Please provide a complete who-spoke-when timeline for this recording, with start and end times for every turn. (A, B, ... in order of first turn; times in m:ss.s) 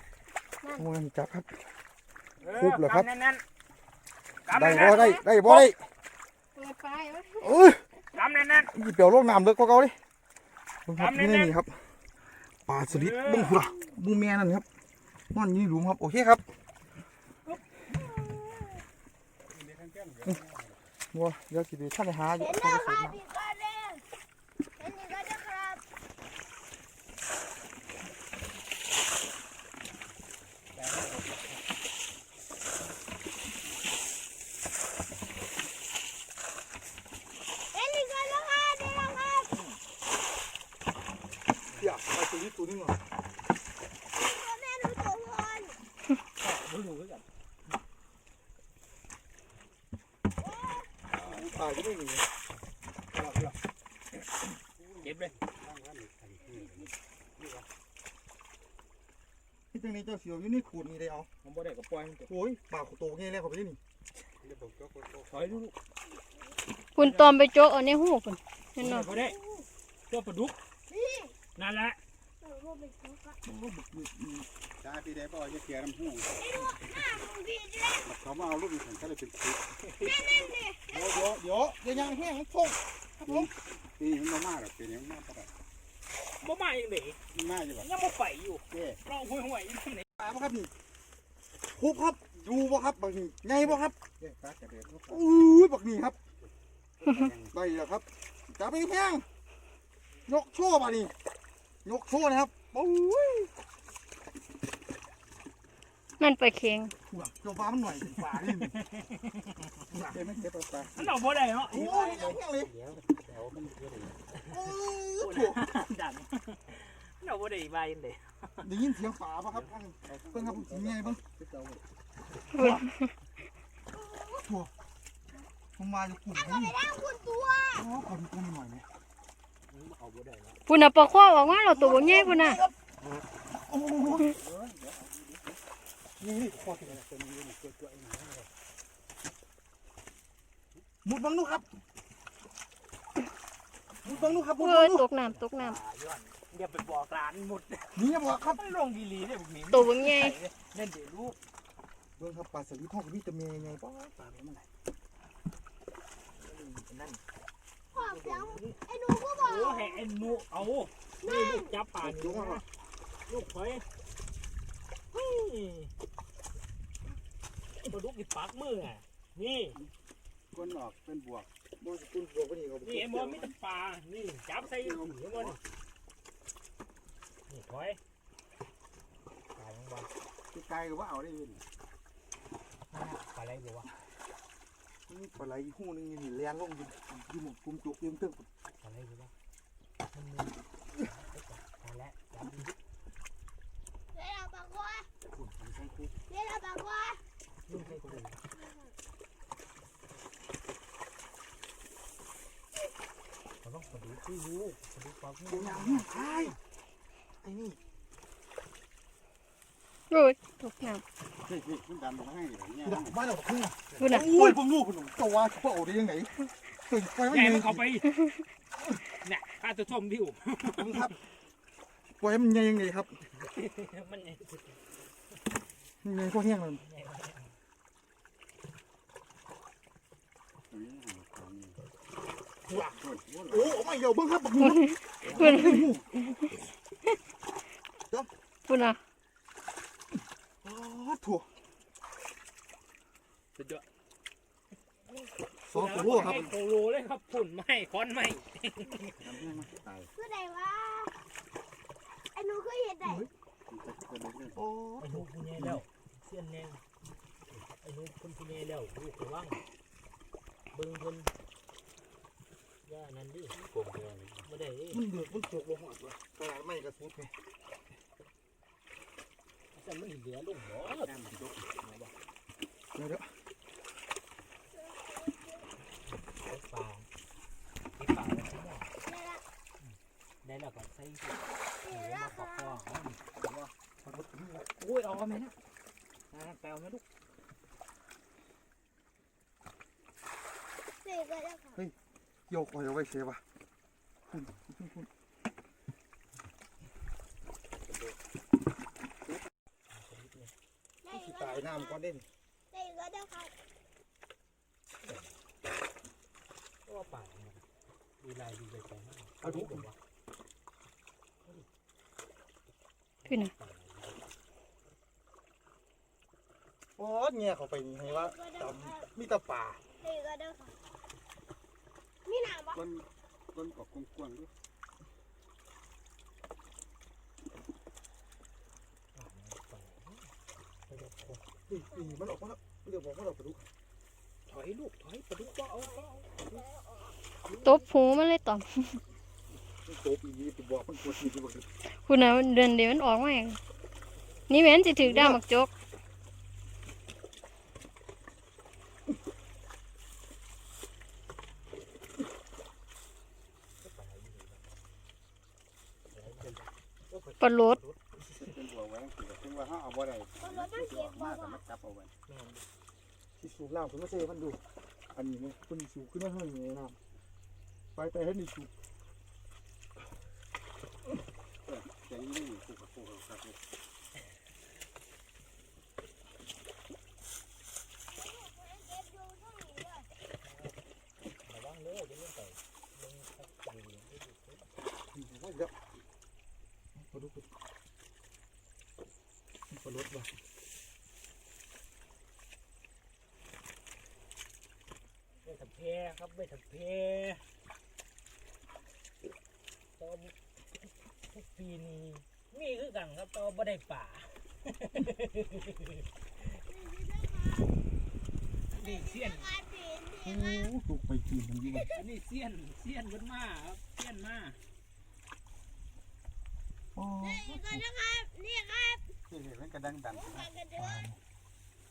0:00.8-0:01.5 A
0:02.4-0:03.4 B
0:02.6-0:03.1 A
0:04.4-0:05.7 B
0:04.5-0:05.8 A
0:04.7-0:05.2 C
0:06.6-0:07.6 C
0:07.4-0:07.8 A
0:08.1-0:08.7 B
0:08.7-0:10.0 A
0:10.8-0:11.9 A
0:10.9-0:11.5 B
0:12.6-0:14.6 A
0:12.8-0:13.7 B
0:15.3-0:16.4 A
0:18.0-0:18.7 D
0:19.5-0:20.8 E
0:21.1-0:23.2 A
0:22.4-0:24.0 D
0:24.8-0:25.8 D
0:30.7-0:31.6 B
0:37.7-0:39.5 D
0:39.5-0:39.8 B
0:41.8-0:43.0 A
0:44.1-0:45.8 D
0:46.4-0:47.2 B
0:50.4-0:51.0 D
0:51.1-0:52.3 A
0:53.1-0:53.6 A
0:54.8-0:57.7 E
0:55.0-0:55.3 B
0:56.4-0:56.9 D
0:59.7-1:01.3 A
1:01.4-1:02.3 B
1:02.3-1:03.8 A
1:04.4-1:05.6 E
1:05.3-1:05.7 B
1:06.9-1:09.1 C
1:07.0-1:07.4 B
1:08.8-1:09.4 B
1:09.0-1:09.6 D
1:10.1-1:10.6 B
1:10.9-1:11.4 D
1:11.6-1:12.0 B
1:12.4-1:13.4 D
1:13.4-1:14.5 A
1:14.8-1:16.8 E
1:16.4-1:18.1 D
1:18.0-1:19.8 E
1:19.9-1:20.1 B
1:20.0-1:21.3 D
1:20.9-1:23.5 A
1:23.2-1:25.5 E
1:26.4-1:27.2 B
1:27.3-1:27.9 E
1:27.8-1:30.1 B
1:28.7-1:29.0 E
1:30.2-1:30.7 A
1:31.7-1:34.0 A
1:34.1-1:35.4 E
1:35.1-1:36.2 A
1:36.4-1:37.5 E
1:37.5-1:39.2 A
1:40.3-1:41.1 A
1:41.8-1:43.5 A
1:46.2-1:46.9 C
1:47.1-1:48.7 A
1:48.3-1:49.6 B
1:49.9-1:50.2 A
1:50.1-1:51.1 E
1:50.9-1:52.4 B
1:51.7-1:52.7 A
1:51.8-1:54.2 E
1:54.5-1:55.7 A
1:55.2-1:58.6 B
1:58.6-2:01.2 A
1:59.5-2:01.8 E
2:02.5-2:02.9 A
2:02.5-2:03.1 C
2:03.9-2:04.5 D
2:04.4-2:04.7 A
2:05.8-2:06.8 A
2:06.3-2:07.8 D
2:07.7-2:08.8 A
2:09.7-2:10.6 B
2:10.7-2:12.6 C
2:11.7-2:12.7 A
2:13.7-2:14.3 A
2:14.0-2:15.6 E
2:16.2-2:17.0 A
2:16.6-2:18.5 E
2:21.0-2:21.6 A
2:24.0-2:25.1 A
2:24.6-2:25.8 C
2:25.3-2:31.4 B
2:27.9-2:28.6 A
2:29.7-2:30.4 C
2:32.2-2:34.1 A
2:34.1-2:34.7 E
2:36.9-2:37.2 B
2:37.9-2:40.4 D
2:38.0-2:38.4 E
2:38.3-2:38.8 B
2:39.4-2:42.6 B
2:41.2-2:41.7 D
2:42.0-2:42.6 A
2:43.3-2:43.8 B
2:45.1-2:45.9 B
2:47.8-2:49.8 B
2:50.5-2:51.5 E
2:51.8-2:53.5 A
2:52.8-2:55.6 B
2:54.6-2:55.6 E
2:57.5-2:58.0 B
2:59.5-3:00.1 B
3:00.5-3:01.6 E
3:02.9-3:03.9 B
3:05.1-3:08.5 A
3:08.8-3:09.3 B
3:10.1-3:12.8 B
3:14.1-3:15.1 D
3:15.3-3:15.9 B
3:15.6-3:16.1 E
3:16.3-3:17.2 D
3:17.7-3:18.4 B
3:17.7-3:18.2 A
3:18.5-3:18.9 D
3:23.6-3:26.5 B
3:25.5-3:26.6 A
3:27.4-3:27.8 A
3:30.1-3:31.0 C
3:31.4-3:33.2 E
3:32.8-3:38.0 A
3:34.0-3:34.6 C
3:37.3-3:38.1 B
3:39.2-3:41.1 B
3:40.7-3:41.2 A
3:42.2-3:43.2 A
3:43.3-3:44.8 B
3:46.0-3:46.8 A
3:46.8-3:47.6 B
3:50.7-3:51.8 E
3:52.7-3:56.0 A
3:52.8-3:53.9 E
3:54.6-3:55.9 C
3:55.2-3:56.0 E
3:58.7-3:59.0 C
4:00.6-4:01.5 A
4:03.6-4:03.8 B
4:05.6-4:06.5 A
4:05.7-4:09.2 B
4:06.0-4:06.6 E
4:09.2-4:10.1 E
4:10.1-4:11.1 D
4:12.3-4:13.3 D
4:13.0-4:13.3 A
4:13.7-4:14.6 E
4:14.6-4:15.8 A
4:15.0-4:16.8 B
4:17.8-4:19.6 B
4:20.7-4:21.3 B
4:22.8-4:23.6 B
4:23.5-4:24.5 E
4:24.4-4:25.0 B
4:24.9-4:27.3 A
4:29.7-4:32.1 B
4:31.0-4:31.7 E
4:32.9-4:33.3 A
4:34.7-4:35.7 D
4:36.3-4:37.1 B
4:38.0-4:38.9 B
4:39.0-4:39.4 D
4:39.8-4:43.7 B
4:41.8-4:42.8 D
4:44.0-4:44.6 A
4:44.8-4:45.5 B
4:46.3-4:47.0 B
4:51.0-4:51.8 D
4:52.5-4:53.4 A
4:54.3-4:55.1 A
4:59.9-5:00.5 B
5:01.0-5:02.0 D
5:01.1-5:02.2 A
5:02.7-5:03.5 D
5:05.0-5:05.3 B
5:06.8-5:07.6 B
5:08.2-5:10.0 B
5:09.4-5:09.9 A
5:13.2-5:14.2 B
5:13.3-5:13.5 C
5:17.0-5:19.8 A
5:18.0-5:19.1 D
5:20.0-5:20.8 D
5:22.2-5:22.8 D
5:22.7-5:24.5 E
5:29.1-5:30.3 B
5:30.9-5:31.4 B
5:31.7-5:33.7 A
5:31.9-5:32.2 D
5:34.5-5:36.2 B
5:35.8-5:37.2 D
5:37.5-5:37.8 B
5:37.6-5:39.0 C
5:39.8-5:41.7 A
5:41.8-5:43.6 C
5:44.5-5:45.7 C
5:45.0-5:45.4 A
5:53.8-5:54.7 B
5:56.1-5:58.0 B
5:56.4-5:56.7 E
5:57.4-5:57.8 C
5:58.3-6:02.1 E
6:00.4-6:01.6 D
6:02.3-6:02.6 B
6:03.4-6:04.6 A
6:05.1-6:07.0 A
6:07.9-6:08.7 A
6:11.6-6:13.6 E
6:18.1-6:20.1 D
6:20.4-6:20.7 B
6:21.4-6:24.7 B
6:25.1-6:25.7 A
6:27.0-6:27.5 A
6:29.7-6:30.3 A
6:35.4-6:37.4 B
6:40.0-6:40.3 B
6:41.3-6:46.0 B
6:46.6-6:47.8 D
6:48.7-6:49.5 B
6:48.7-6:50.7 D
6:50.2-6:51.9 A
6:51.7-6:52.0 D
6:51.9-6:54.6 B
6:56.9-6:57.8 A
6:57.2-6:59.1 D
6:59.3-7:00.5 E
7:00.1-7:01.1 D
7:00.8-7:01.2 A